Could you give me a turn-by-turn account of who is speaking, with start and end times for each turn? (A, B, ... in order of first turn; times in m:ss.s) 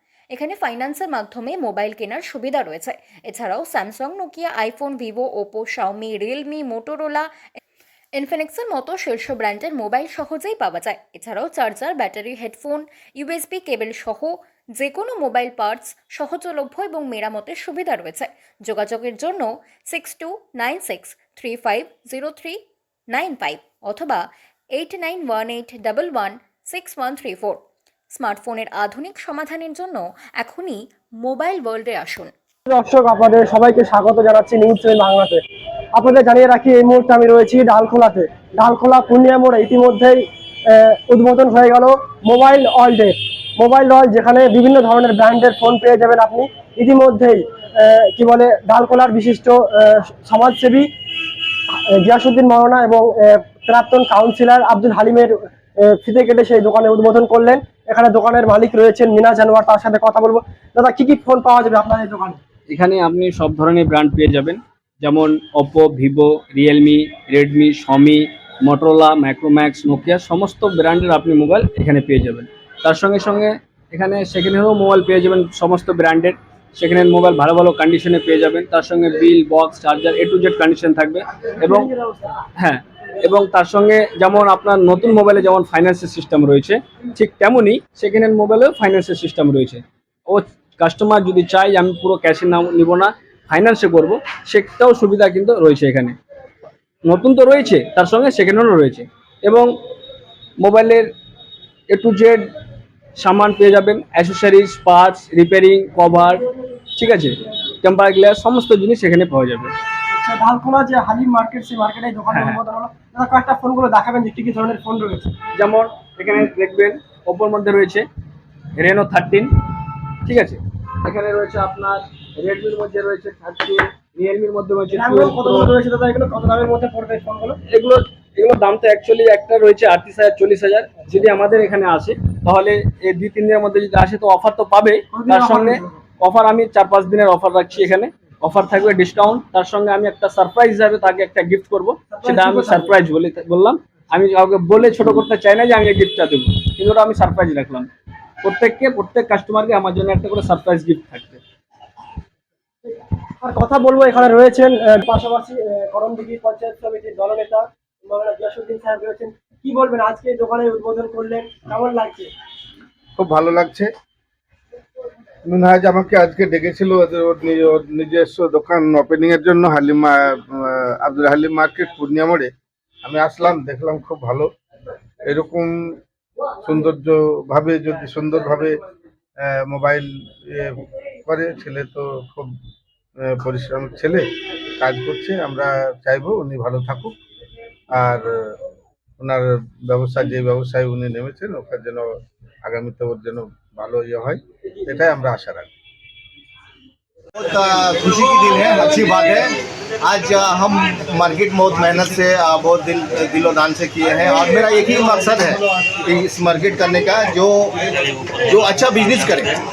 0:00.3-0:07.3 A
0:08.2-0:27.6 A
0:28.1-0:32.3 A
0:32.7-0:35.4 B
0:35.9-0:50.9 B
0:51.9-1:02.4 B
1:02.7-1:21.9 C
1:21.6-1:22.4 B
1:22.6-1:36.2 C
1:37.0-1:39.7 C
1:40.6-1:41.1 C
1:41.9-1:42.5 C
1:43.2-1:49.7 C
1:50.1-1:55.3 B
1:52.3-1:52.6 C
1:55.5-1:58.0 C
1:58.8-1:59.6 C
2:00.2-2:05.7 C
2:04.9-2:07.6 B
2:07.7-2:27.9 C
2:15.1-2:15.9 B
2:22.1-2:22.9 B
2:28.4-2:31.4 C
2:32.8-2:42.3 B
2:43.2-2:43.9 D
2:45.5-2:52.5 D
2:53.0-2:54.5 D
2:55.2-2:55.9 D
2:56.6-2:58.8 D
2:59.4-3:02.5 D
3:03.2-3:07.1 D
3:08.0-3:08.5 D
3:09.2-3:15.7 D
3:17.4-3:27.8 E
3:28.4-3:29.5 E